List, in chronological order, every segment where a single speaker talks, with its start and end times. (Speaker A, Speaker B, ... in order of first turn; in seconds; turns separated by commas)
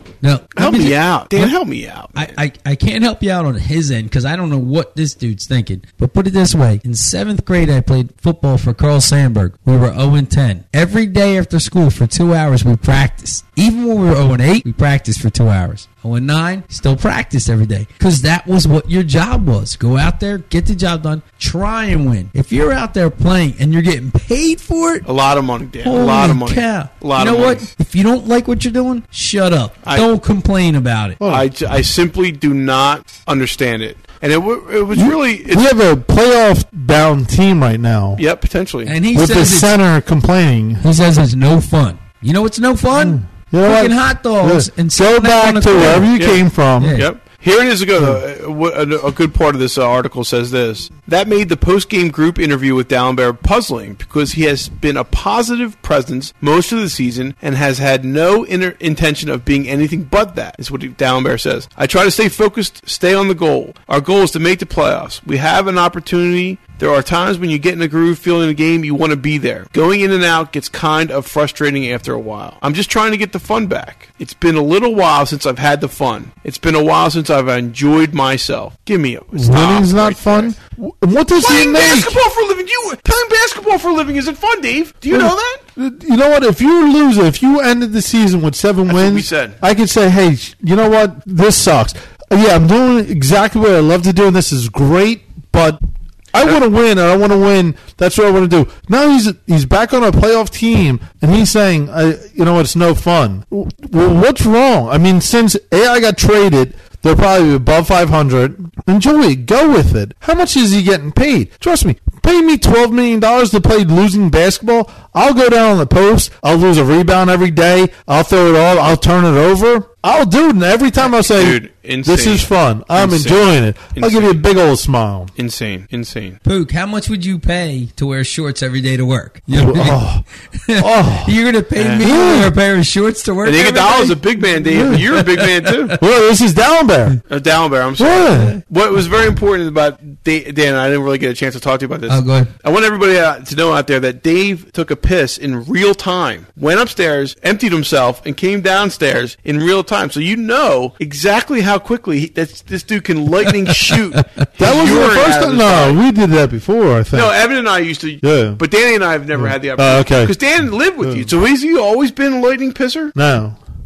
Speaker A: 0.2-1.5, Speaker B: 0.6-2.3, Speaker A: 2.1-25.1, Speaker B: 25.0-27.6, Speaker A: 25.8-31.2, Speaker C: 31.2-31.5, Speaker B: 31.2-35.7, Speaker C: 34.9-38.2, Speaker B: 38.2-38.9, Speaker A: 38.9-39.8, Speaker C: 39.1-40.8, Speaker A: 40.8-46.1, Speaker C: 42.9-47.0, Speaker B: 45.8-80.5, Speaker A: 46.8-47.1, Speaker C: 79.3-82.2, Speaker B: 81.3-85.6, Speaker C: 85.1-95.8, Speaker B: 88.9-89.6, Speaker C: 96.3-125.3, Speaker B: 121.2-124.4, Speaker B: 125.4-126.4, Speaker A: 126.4-135.9, Speaker C: 129.5-130.2, Speaker C: 130.8-131.3, Speaker B: 131.8-132.0, Speaker C: 132.0-132.5, Speaker B: 133.4-136.0, Speaker C: 134.7-135.1, Speaker C: 136.0-137.2, Speaker B: 137.3-156.0, Speaker C: 138.0-138.6, Speaker A: 142.1-142.5, Speaker A: 153.6-154.4, Speaker C: 154.6-157.3, Speaker B: 157.1-163.1, Speaker C: 158.2-158.6, Speaker C: 159.3-160.3, Speaker C: 161.0-161.3, Speaker C: 163.1-163.6